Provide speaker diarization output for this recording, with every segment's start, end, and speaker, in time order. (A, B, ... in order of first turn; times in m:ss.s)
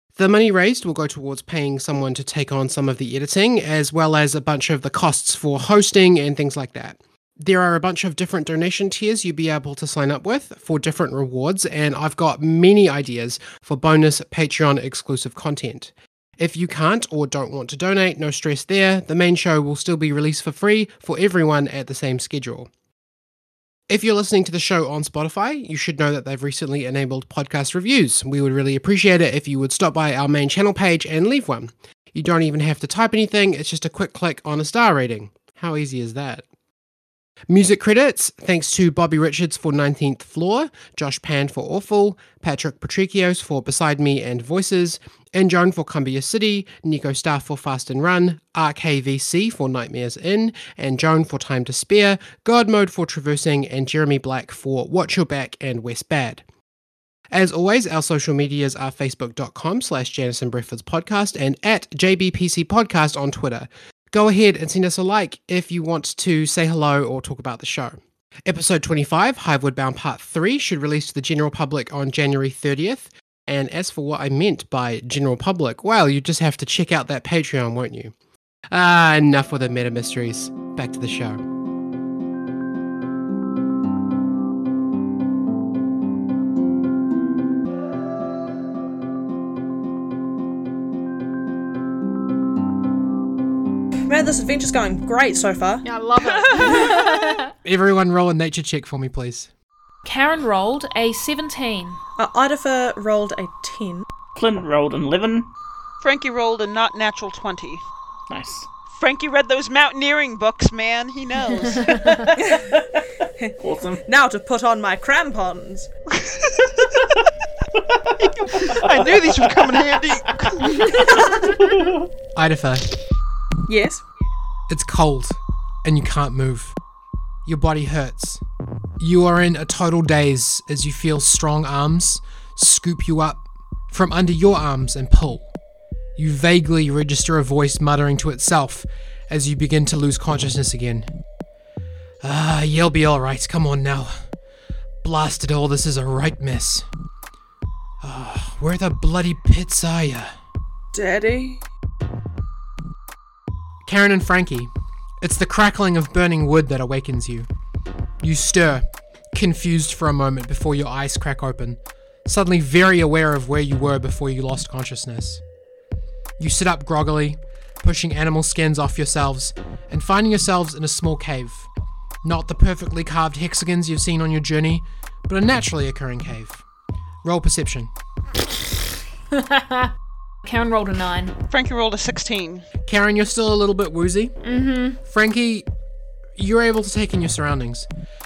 0:00.2-0:22.7 A
0:23.9-0:36.4 A
0:37.5-0:56.4 A
0:57.3-1:18.1 A
1:18.7-1:21.4 A
1:34.1-1:35.8 B
1:35.8-1:37.5 C
1:36.2-1:37.4 D
1:37.6-1:39.5 A
1:40.0-1:42.0 C
1:42.2-1:44.0 B
1:44.4-1:45.5 E
1:46.0-1:47.8 D
1:48.3-1:48.7 E
1:48.9-1:52.4 D
1:51.7-1:52.3 C
1:52.4-1:52.8 B
1:52.4-1:53.0 E
1:53.4-1:55.9 B
1:53.6-1:54.0 E
1:56.2-1:56.8 D
1:57.9-1:59.6 E
1:58.2-2:01.3 D
2:01.2-2:02.1 E
2:02.4-2:02.9 A
2:03.7-2:04.0 B
2:04.7-2:06.8 A
2:07.5-2:08.4 A
2:09.0-2:15.5 A
2:16.2-2:21.1 A
2:22.2-2:24.1 A
2:25.0-2:26.9 A
2:28.0-2:30.3 A
2:30.9-2:31.6 B
2:33.8-2:34.7 A
2:35.2-2:37.5 A
2:38.2-2:45.4 A
2:46.4-2:51.7 A
2:52.2-2:56.6 A
2:57.2-2:57.9 A
2:59.3-2:59.9 C
3:00.4-3:01.4 C
3:01.5-3:02.7 D
3:02.8-3:04.4 A
3:04.4-3:05.0 C
3:05.0-3:05.7 A
3:06.4-3:07.9 A